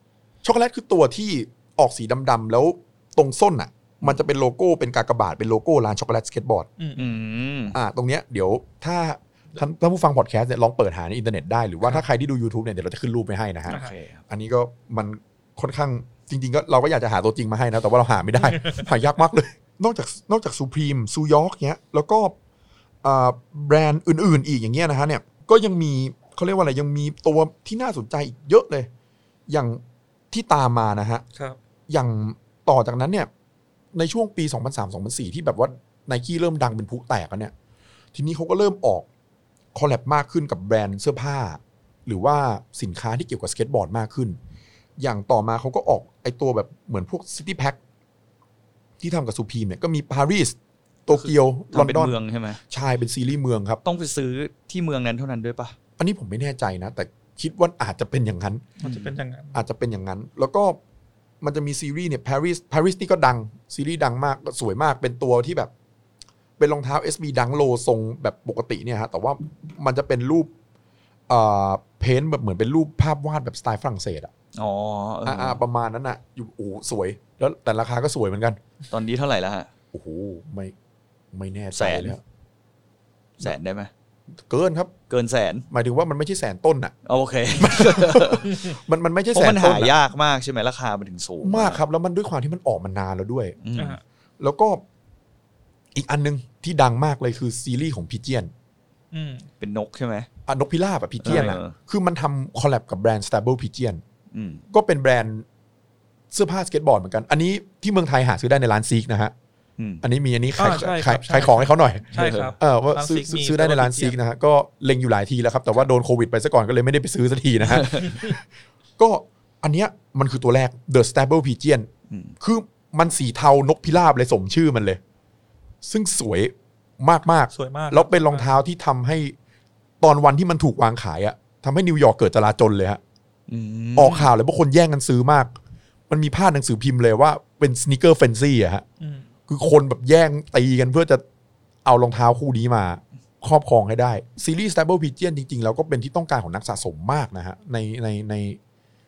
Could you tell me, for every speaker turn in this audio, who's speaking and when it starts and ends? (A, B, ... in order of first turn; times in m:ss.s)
0:00.4-0:06.7 A
0:06.8-0:07.1 B
0:07.0-0:07.8 C
0:07.7-0:22.4 A
0:13.7-0:14.2 C
0:23.0-0:28.9 A
0:29.5-0:31.2 A
0:31.9-0:33.3 A
0:33.9-0:37.5 A
0:38.1-0:39.1 A
0:39.7-0:44.4 A
0:45.0-0:47.8 A
0:49.0-0:52.2 A
0:51.1-0:52.6 C
0:52.7-0:53.8 A
0:53.8-0:55.8 C
0:56.0-0:58.7 A
0:58.8-0:59.6 B
0:58.8-0:59.1 C
0:59.5-1:00.8 A
1:01.4-1:05.7 A
1:06.6-1:10.5 A
1:11.3-1:14.3 A
1:14.6-1:15.6 C
1:15.2-1:18.6 A
1:18.9-1:19.7 C
1:19.9-1:20.7 A
1:21.3-1:22.2 A
1:21.7-1:22.2 C
1:23.4-1:23.9 C
1:24.5-1:24.9 A
1:25.1-1:25.6 C
1:25.7-1:26.9 A
1:27.1-1:28.5 C
1:27.6-1:30.0 A
1:29.3-1:31.8 C
1:31.4-1:33.6 A
1:33.6-1:34.0 C
1:33.8-1:34.0 B
1:34.4-1:34.8 A
1:35.9-1:38.5 A
1:39.1-1:39.5 B
1:39.6-1:40.3 C
1:40.5-1:44.0 A
1:41.2-1:41.8 C
1:41.3-1:41.6 B
1:44.3-1:44.6 C
1:44.7-1:45.5 A
1:46.3-1:49.3 A
1:49.8-1:50.0 C
1:50.0-1:58.5 A
1:50.6-1:54.2 B
1:52.1-1:52.5 C
1:57.7-1:58.0 C
1:58.0-1:58.3 B
1:59.0-2:01.9 A
2:02.4-2:05.0 A
2:05.8-2:09.4 A
2:07.5-2:08.5 B
2:10.0-2:13.0 A
2:13.5-2:14.3 C
2:14.0-2:15.6 A
2:16.1-2:18.8 A
2:19.0-2:19.3 B
2:19.5-2:21.2 A
2:21.8-2:28.6 A